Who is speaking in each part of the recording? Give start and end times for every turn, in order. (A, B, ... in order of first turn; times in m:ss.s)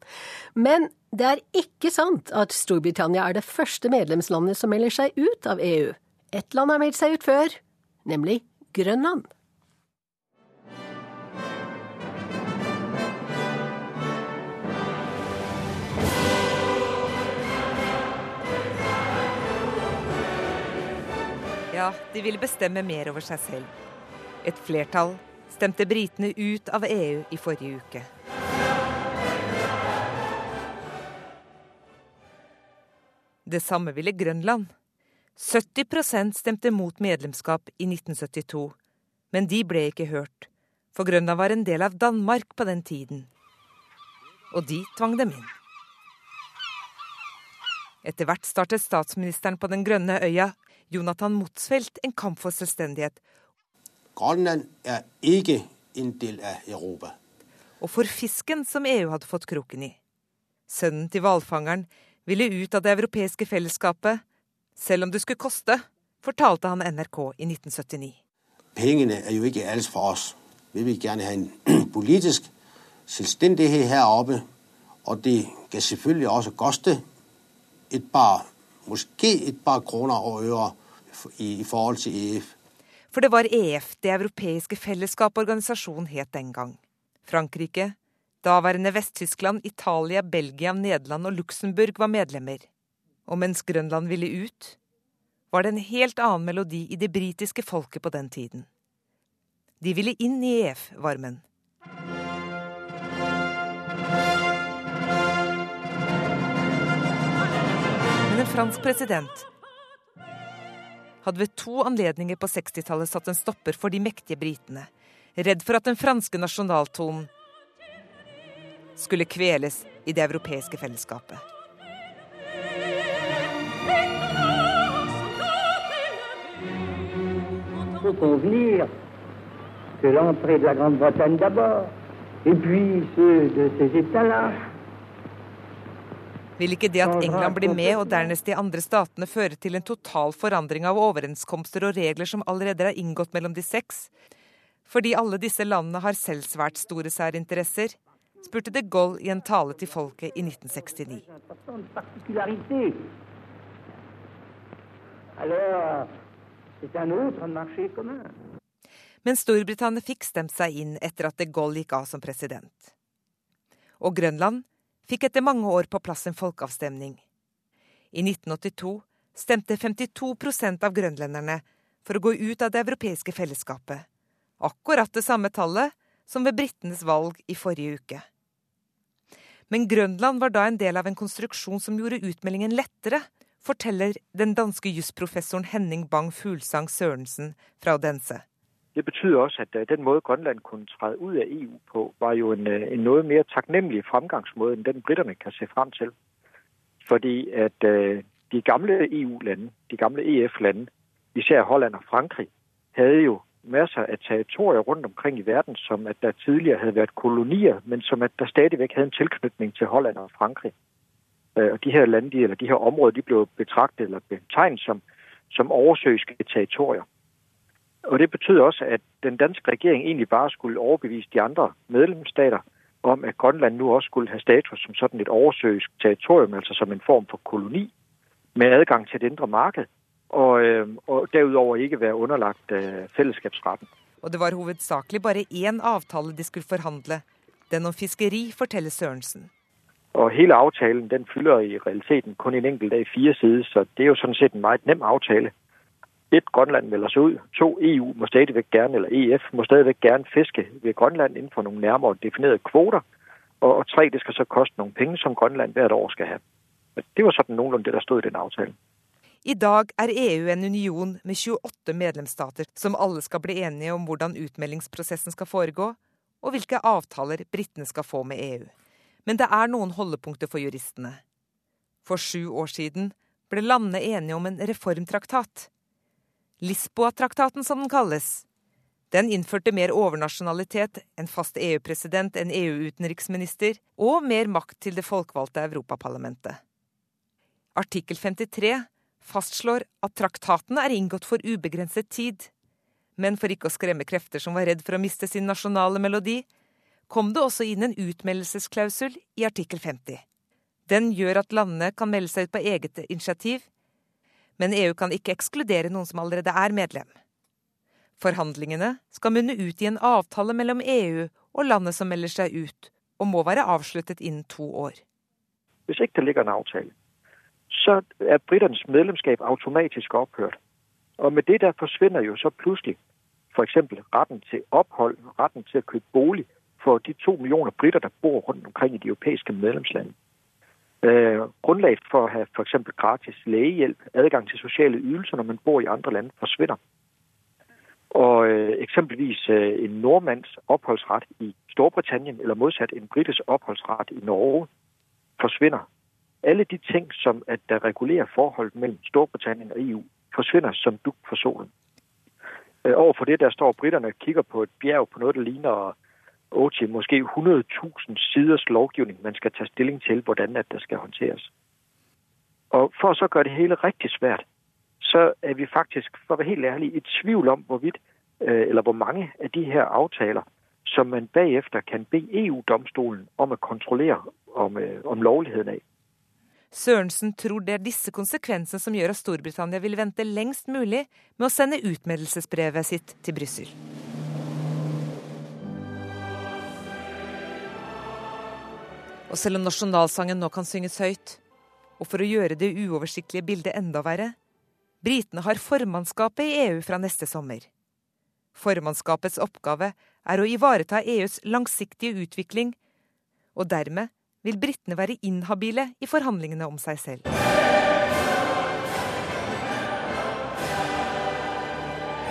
0:00.6-0:09.3 A
0:21.7-0:23.7 B
0:24.4-0:28.1 B
0:33.4-0:34.7 B
0:35.4-0:38.8 B
0:39.3-0:43.3 B
0:44.5-0:45.5 B
0:48.0-0:53.2 B
0:54.2-0:57.1 C
0:57.8-1:00.0 B
1:00.7-1:04.2 B
1:04.8-1:08.2 B
1:08.8-1:12.5 C
1:13.1-1:14.4 C
1:15.0-1:17.0 C
1:17.9-1:22.5 C
1:23.1-1:32.7 B
1:33.2-1:34.8 B
1:35.5-1:38.7 B
1:39.8-1:41.4 B
1:48.2-1:49.5 B
1:51.2-1:57.3 B
1:59.0-2:01.4 B
2:08.0-2:08.9 D
2:10.0-2:11.7 D
2:12.4-2:14.6 D
2:16.6-2:24.1 B
2:24.9-2:31.3 B
2:31.7-2:33.0 D
2:35.4-2:36.1 D
2:36.8-2:38.2 D
2:39.2-2:42.8 B
2:44.0-2:47.2 B
2:48.1-2:54.0 B
2:54.6-2:58.2 B
2:59.7-3:08.4 B
3:08.9-3:16.1 E
3:17.0-3:30.7 E
3:31.6-3:37.0 E
3:38.0-3:47.9 E
3:48.6-3:53.9 E
3:54.2-3:59.5 B
4:00.1-4:05.5 E
4:06.3-4:13.0 E
4:13.6-4:16.4 E
4:17.0-4:18.8 E
4:19.4-4:28.7 B
4:29.2-4:31.2 B
4:32.0-4:35.7 B
4:36.6-4:38.4 B
4:39.1-4:46.6 B
4:47.8-4:52.5 B
4:53.2-4:56.4 B
4:57.1-5:00.2 B
5:00.9-5:03.7 B
5:04.6-5:07.2 B
5:08.2-5:15.0 B
5:15.9-5:16.9 E
5:17.7-5:20.6 E
5:21.2-5:23.0 E
5:23.5-5:30.1 E
5:31.0-5:36.8 E
5:38.1-5:44.7 E
5:45.4-5:45.8 E
5:46.4-5:51.7 E
5:52.8-5:55.9 E
5:56.5-6:01.5 E
6:02.7-6:04.4 E
6:05.0-6:15.8 E
6:16.7-6:23.7 B
6:29.3-6:31.4 B
6:32.0-6:34.4 B
6:35.0-6:37.7 B
6:38.5-6:42.8 B
6:43.5-6:47.2 B